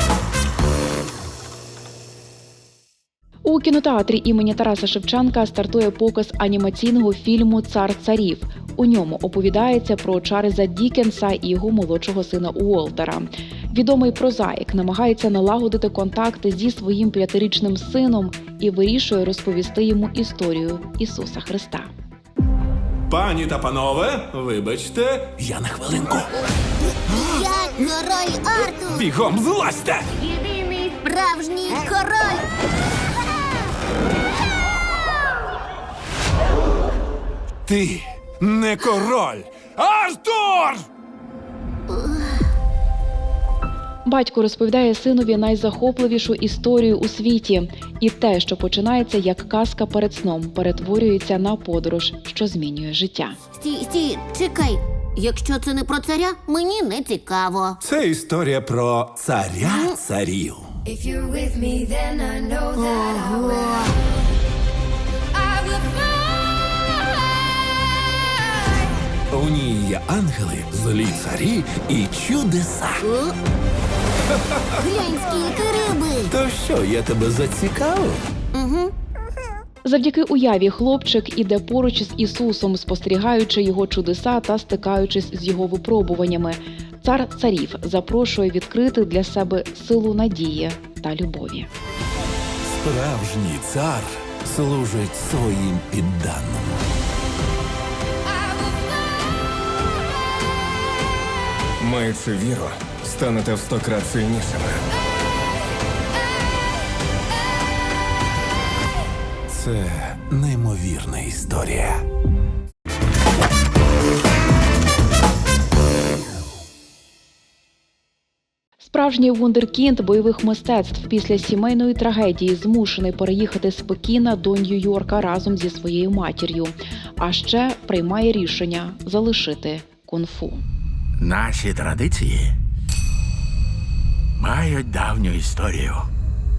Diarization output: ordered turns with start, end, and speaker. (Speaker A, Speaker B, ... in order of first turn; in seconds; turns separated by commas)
Speaker A: 3.4-21.9, Speaker B: 23.1-26.3, Speaker C: 27.1-29.1, Speaker B: 28.9-30.1, Speaker C: 30.7-32.4, Speaker B: 37.6-40.8, Speaker C: 41.9-42.2, Speaker A: 44.0-53.4, Speaker C: 53.5-57.8, Speaker B: 57.8-60.7, Speaker C: 59.6-59.9, Speaker D: 60.9-63.5, Speaker C: 62.8-63.9, Speaker B: 69.3-73.1, Speaker C: 73.0-73.3, Speaker B: 74.5-74.8, Speaker C: 74.8-76.3, Speaker B: 76.3-78.2, Speaker C: 78.5-78.9, Speaker A: 79.8-91.7, Speaker B: 92.6-96.8, Speaker E: 101.8-104.8, Speaker B: 109.5-112.0, Speaker A: 118.8-130.6, Speaker F: 131.2-132.5, Speaker F: 134.4-136.1